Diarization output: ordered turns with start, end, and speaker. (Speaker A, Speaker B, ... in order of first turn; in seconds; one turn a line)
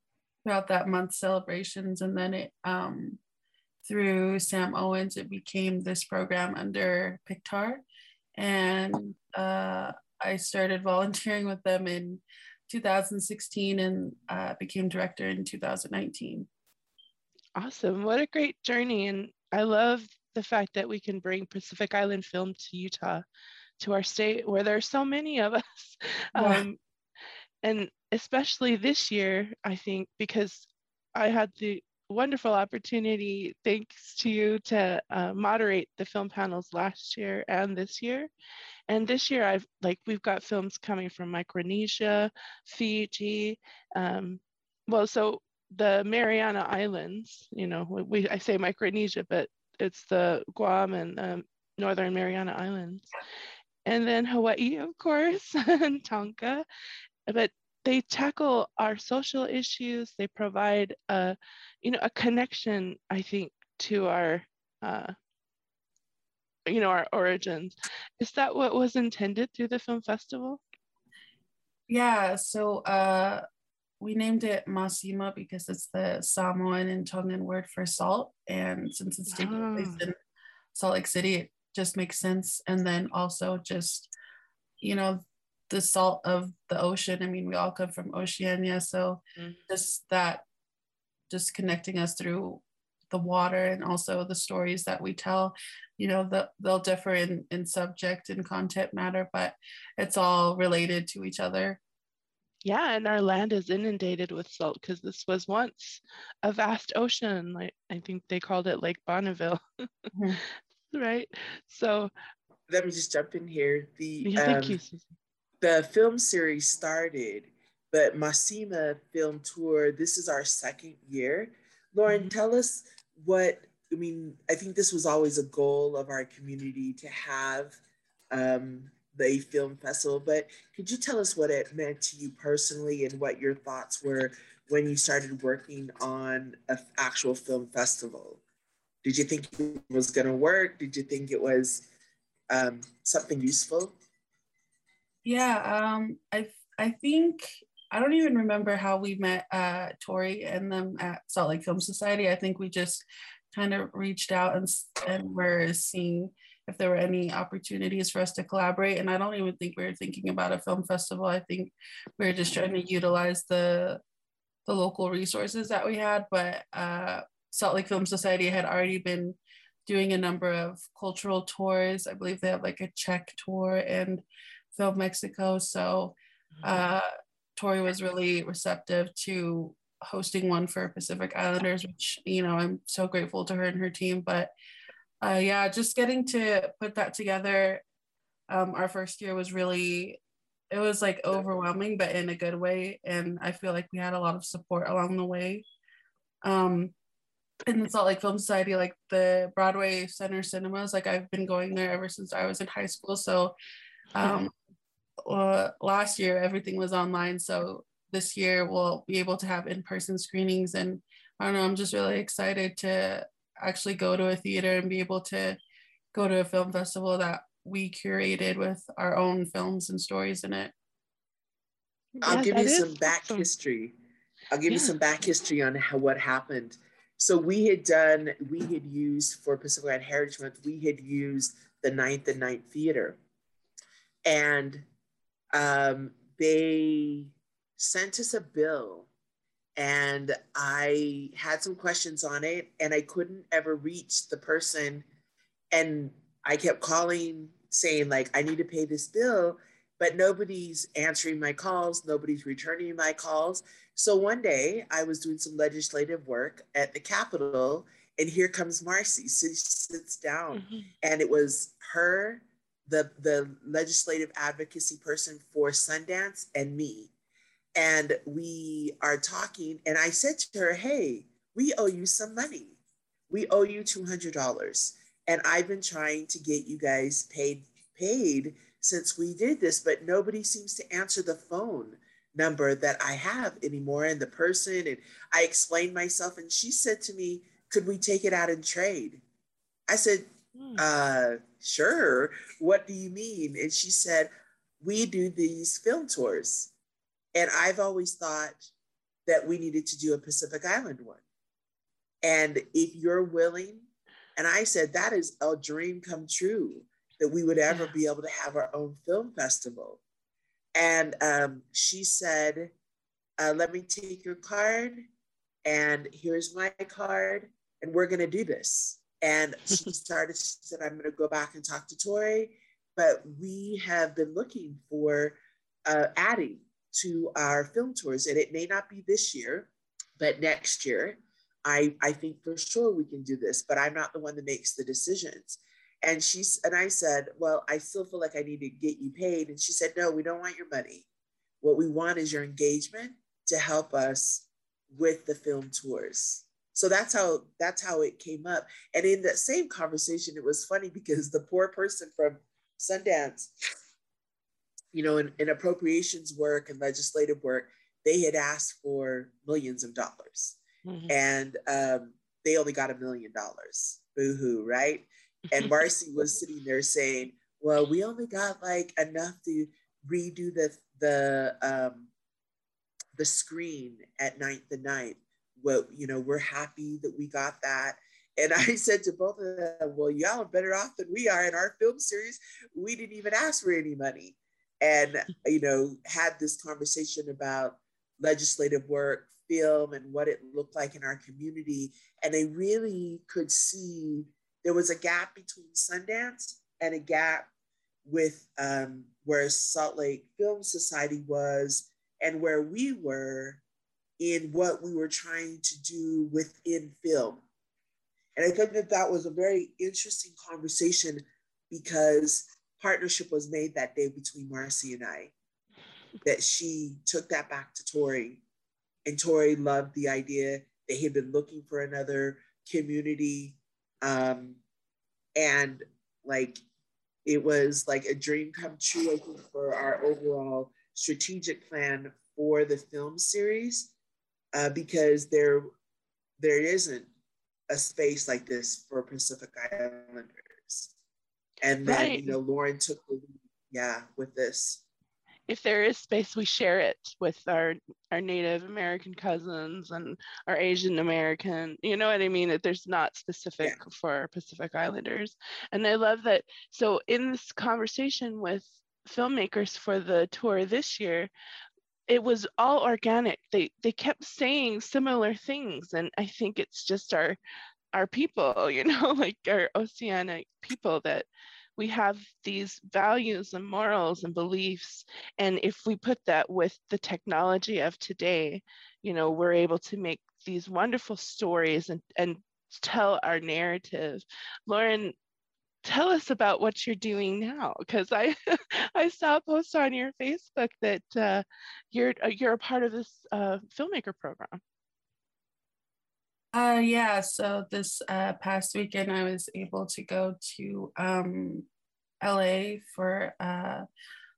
Speaker A: 0.5-3.2
Speaker A: 3.9-7.8
Speaker A: 8.4-16.5
Speaker B: 17.6-23.2
Speaker B: 23.8-26.8
Speaker A: 26.4-26.7
Speaker B: 27.6-38.3
Speaker B: 38.9-53.1
Speaker B: 53.9-56.6
Speaker B: 57.3-65.1
Speaker B: 66.7-70.6
Speaker A: 71.9-73.4
Speaker A: 74.0-80.1
Speaker B: 79.3-80.0
Speaker A: 80.7-84.1
Speaker A: 84.8-90.4
Speaker A: 91.3-101.8
Speaker B: 102.6-109.9
Speaker A: 110.1-110.4
Speaker B: 110.9-112.1
Speaker C: 112.7-114.8
Speaker B: 114.2-115.0
Speaker C: 115.6-127.8
Speaker C: 128.3-138.4
Speaker C: 139.0-141.8
Speaker C: 142.5-143.9
Speaker A: 145.2-164.0
Speaker A: 164.7-184.5
Speaker A: 185.2-187.8
Speaker A: 188.5-190.2
Speaker A: 190.7-195.6
Speaker A: 196.4-196.9
Speaker A: 197.7-203.5
Speaker A: 204.1-204.5
Speaker A: 205.3-215.6
Speaker A: 216.1-220.7
Speaker B: 222.2-223.5
Speaker C: 222.2-223.9
Speaker C: 224.5-233.2
Speaker B: 224.7-224.9
Speaker C: 234.2-234.8
Speaker C: 235.5-239.1
Speaker C: 239.8-245.1
Speaker C: 245.7-267.1
Speaker B: 260.5-260.9
Speaker C: 267.7-272.8
Speaker C: 273.3-289.2
Speaker C: 289.9-296.7
Speaker B: 290.6-290.8
Speaker C: 297.4-298.6
Speaker C: 299.3-301.2
Speaker C: 302.2-310.0
Speaker C: 310.7-312.7
Speaker C: 313.4-315.1
Speaker C: 315.6-341.1
Speaker C: 341.6-353.5
Speaker C: 354.9-360.6
Speaker B: 360.9-361.1
Speaker C: 361.1-372.1
Speaker C: 373.1-397.5
Speaker C: 398.1-403.6
Speaker C: 404.2-407.4
Speaker C: 408.4-415.3
Speaker C: 416.2-418.4
Speaker C: 419.1-424.6
Speaker C: 425.4-426.6
Speaker C: 427.3-433.9
Speaker C: 434.5-435.7
Speaker C: 436.4-437.1
Speaker C: 437.7-440.9
Speaker C: 441.6-444.8
Speaker B: 441.9-442.4
Speaker B: 445.5-461.3
Speaker B: 462.1-467.4
Speaker B: 467.9-485.1
Speaker B: 485.9-488.4
Speaker B: 488.9-494.6
Speaker A: 496.5-501.6
Speaker A: 502.2-503.9